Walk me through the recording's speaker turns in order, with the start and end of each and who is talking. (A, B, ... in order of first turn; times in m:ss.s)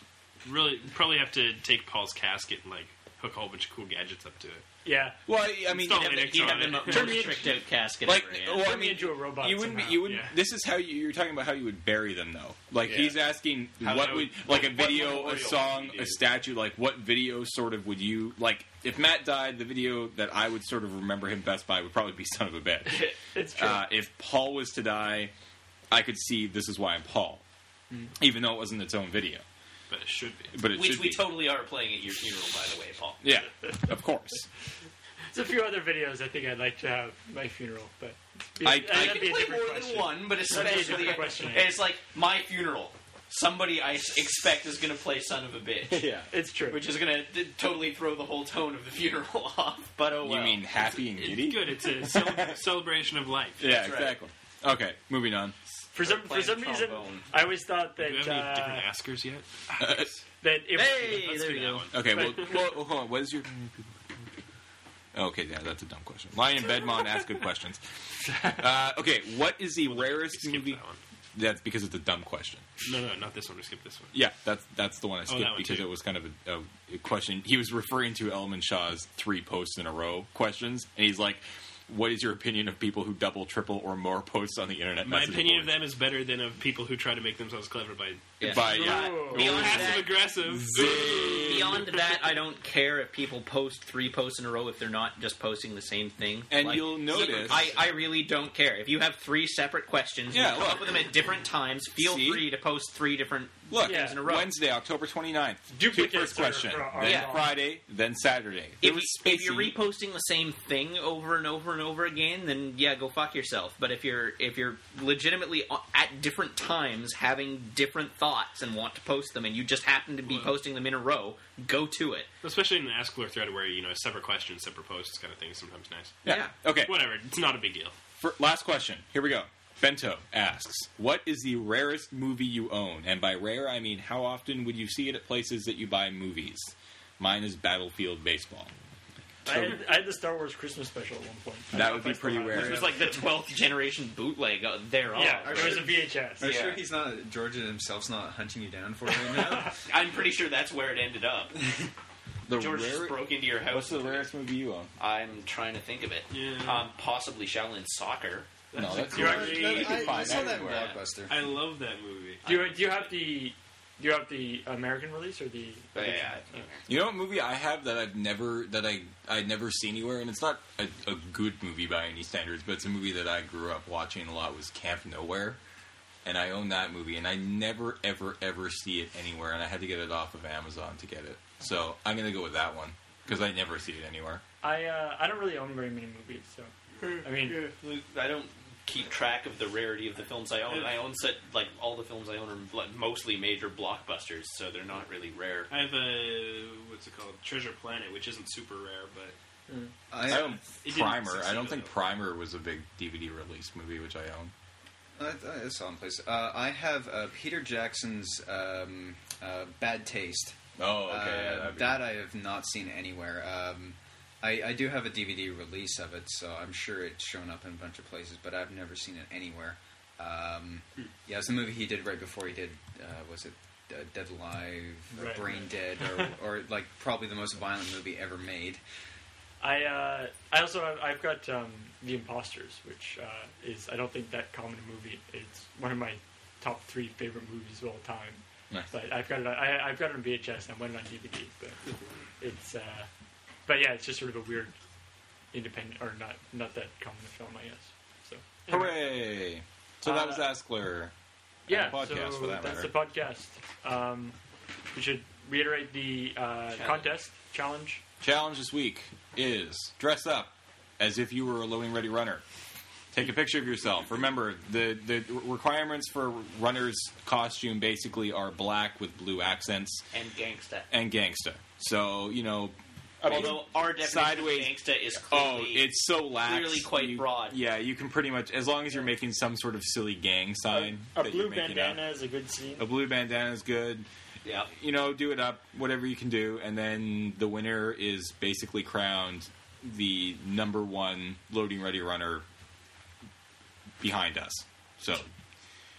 0:00.4-0:04.6 A
0:04.8-0:05.2 B
0:05.3-0:06.1 C
0:05.7-0:07.4 A
0:05.8-0:08.8 D
0:06.6-0:07.6 B
0:08.0-0:25.3 C
0:08.6-0:10.1 B
0:10.0-0:10.3 A
0:12.9-0:13.1 A
0:13.8-0:16.2 A
0:14.6-0:15.5 D
0:22.9-0:23.8 B
0:25.9-0:27.4 C
0:28.2-0:29.4 C
0:29.9-0:30.6 A
0:30.5-0:31.4 C
0:30.6-0:33.2 D
0:33.2-0:34.5 C
0:35.3-0:41.8 B
0:38.6-0:39.5 C
0:38.7-0:46.1 D
0:45.9-0:46.3 C
0:46.3-0:46.9 B
0:46.6-0:50.8 D
0:50.2-0:52.6 C
0:51.1-0:53.7 A
0:53.6-0:55.6 C
0:53.6-0:54.2 D
0:55.9-0:57.3 D
0:55.9-0:58.9 B
0:58.0-1:00.2 A
0:59.8-1:00.1 C
1:00.4-1:02.5 B
1:00.7-1:01.9 D
1:01.0-1:02.3 A
1:01.9-1:03.6 C
1:05.1-1:07.8 C
1:08.4-1:10.8 C
1:09.8-1:11.0 A
1:11.3-1:12.6 C
1:12.8-1:14.1 A
1:14.1-1:25.8 C
1:15.3-1:15.9 A
1:25.0-1:32.4 A
1:28.4-1:30.1 D
1:28.4-1:31.8 C
1:28.8-1:29.5 B
1:30.7-1:44.5 D
1:36.5-1:37.7 C
1:40.3-1:41.0 C
1:42.0-1:42.5 C
1:43.7-1:49.8 C
1:43.8-1:44.2 B
1:45.7-1:47.5 B
1:47.0-1:47.4 D
1:48.8-2:02.3 D
2:00.3-2:00.6 A
2:02.4-2:06.2 A
2:06.2-2:07.0 C
2:06.2-2:06.5 D
2:06.8-2:07.9 A
2:08.2-2:18.7 C
2:19.4-2:19.8 C
2:19.4-2:23.0 B
2:21.7-2:22.9 C
2:22.5-2:26.8 D
2:25.1-2:26.5 B
2:25.5-2:29.8 E
2:29.8-2:31.6 D
2:32.4-2:34.9 C
2:32.5-2:34.3 D
2:35.0-2:38.6 D
2:36.3-2:36.8 A
2:38.7-2:42.4 A
2:38.7-2:40.7 C
2:38.8-2:41.4 E
2:39.2-2:40.1 B
2:39.9-2:41.0 D
2:42.4-2:43.4 D
2:42.4-2:46.6 B
2:45.9-2:46.9 D
2:46.9-2:55.6 C
2:56.2-3:04.4 C
3:04.6-3:06.7 B
3:07.2-3:07.7 B
3:07.4-3:15.7 D
3:15.7-3:19.4 A
3:19.7-3:19.9 B
3:20.1-3:20.6 E
3:20.2-3:24.5 C
3:20.3-3:21.9 A
3:25.2-3:48.8 E
3:30.8-3:32.0 C
3:45.1-3:45.7 B
3:49.6-4:01.8 B
4:02.4-4:03.1 B
4:03.6-4:04.7 B
4:05.5-4:09.0 B
4:08.7-4:11.1 C
4:10.0-4:10.5 B
4:11.7-4:12.9 C
4:11.7-4:14.3 B
4:14.9-4:18.0 B
4:16.8-4:17.1 D
4:18.2-4:22.4 C
4:23.1-4:30.0 C
4:30.1-4:30.9 D
4:30.9-4:34.7 C
4:33.2-4:37.6 D
4:35.3-4:42.0 C
4:40.7-4:42.8 B
4:42.8-4:44.1 C
4:44.4-4:44.7 D
4:44.7-4:52.4 C
4:54.0-4:55.3 C